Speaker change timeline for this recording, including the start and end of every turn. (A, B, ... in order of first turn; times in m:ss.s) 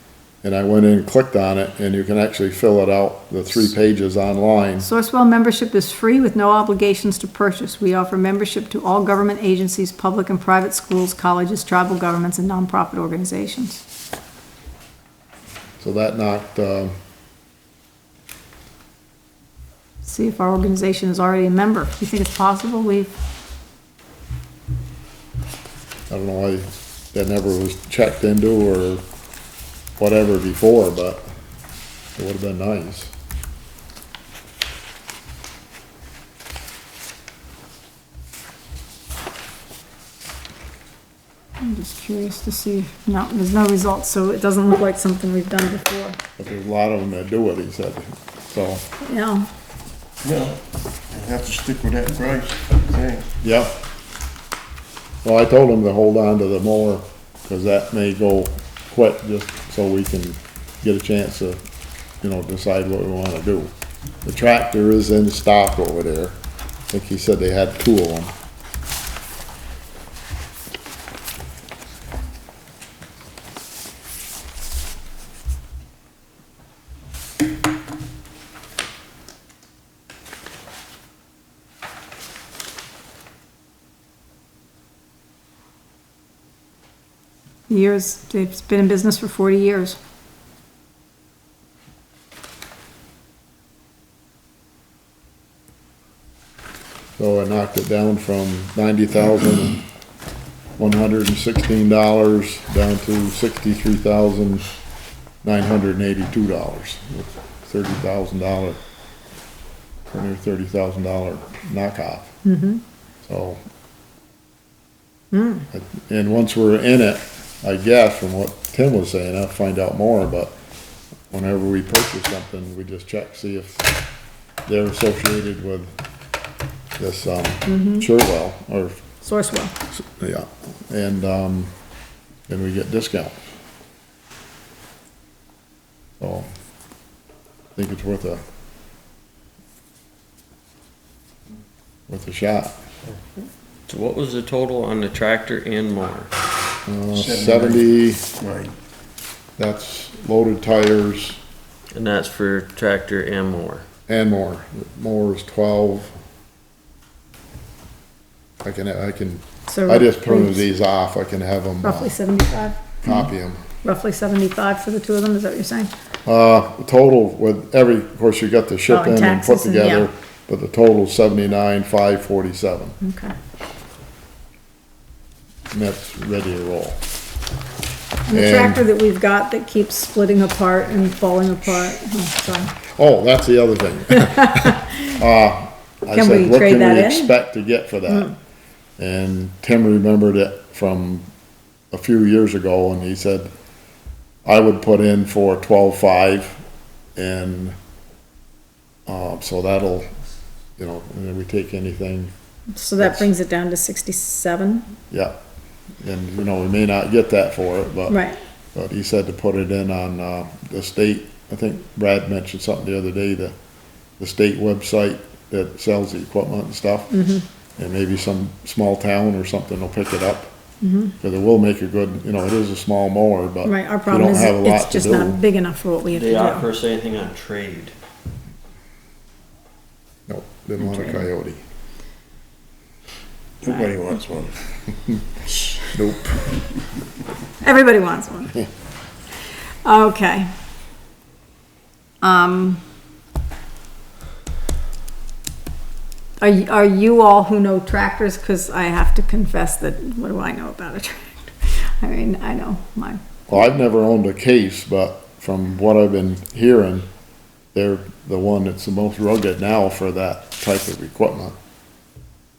0:00.4-0:04.9 A
0:04.8-0:13.8 B
0:15.8-0:16.9 A
0:20.0-0:23.1 B
0:26.1-0:29.0 A
0:30.0-0:31.2 A
0:32.1-0:33.1 A
0:41.6-0:46.2 B
0:46.4-0:48.8 A
0:49.0-0:49.5 B
0:50.2-0:53.3 C
0:53.4-0:53.8 A
0:55.2-1:01.6 A
1:02.2-1:03.7 A
1:04.2-1:06.3 A
1:06.9-1:08.3 A
1:27.7-1:30.0 B
1:37.2-1:39.8 A
1:40.8-1:44.6 A
1:45.4-1:48.8 A
1:50.1-1:52.3 A
1:52.4-1:52.8 B
1:53.2-1:53.6 A
1:55.3-1:55.6 B
1:55.7-2:00.6 A
2:01.3-2:03.9 A
2:04.6-2:05.9 A
2:07.0-2:09.0 A
2:07.7-2:08.0 B
2:09.2-2:09.7 B
2:09.9-2:11.7 A
2:12.5-2:13.4 A
2:16.2-2:16.5 A
2:17.8-2:18.4 A
2:22.1-2:22.8 A
2:23.9-2:26.3 D
2:26.8-2:28.2 A
2:27.1-2:28.7 C
2:29.6-2:31.4 A
2:31.9-2:33.8 D
2:34.1-2:36.1 A
2:38.6-2:42.2 A
2:39.7-2:40.6 B
2:41.8-2:43.1 B
2:43.0-2:43.6 A
2:43.8-2:45.9 B
2:46.2-2:53.0 A
2:48.9-2:50.1 B
2:53.0-2:53.3 B
2:55.7-2:57.0 A
2:58.3-3:02.7 B
2:58.3-2:58.8 A
3:02.9-3:08.3 A
3:04.3-3:05.1 B
3:06.1-3:07.3 B
3:09.0-3:11.3 A
3:11.9-3:13.5 A
3:14.4-3:16.6 A
3:17.2-3:17.8 A
3:19.1-3:20.0 A
3:20.8-3:22.3 A
3:22.7-3:24.9 B
3:23.0-3:23.3 A
3:25.1-3:25.3 A
3:26.0-3:28.2 A
3:28.1-3:28.4 B
3:28.7-3:33.5 A
3:34.2-3:37.1 A
3:37.1-3:37.4 B
3:37.8-3:40.5 A
3:40.8-3:41.1 B
3:41.2-3:45.4 A
3:43.6-3:46.7 B
3:46.1-3:47.9 D
3:50.3-3:51.6 A
3:50.8-3:51.2 B
3:53.6-3:54.6 C
3:55.4-3:55.8 C
3:55.9-3:56.6 A
3:57.6-3:58.5 B
3:59.8-4:00.5 B
4:02.2-4:02.8 B
4:06.4-4:13.2 B
4:13.5-4:17.1 A
4:17.7-4:21.6 A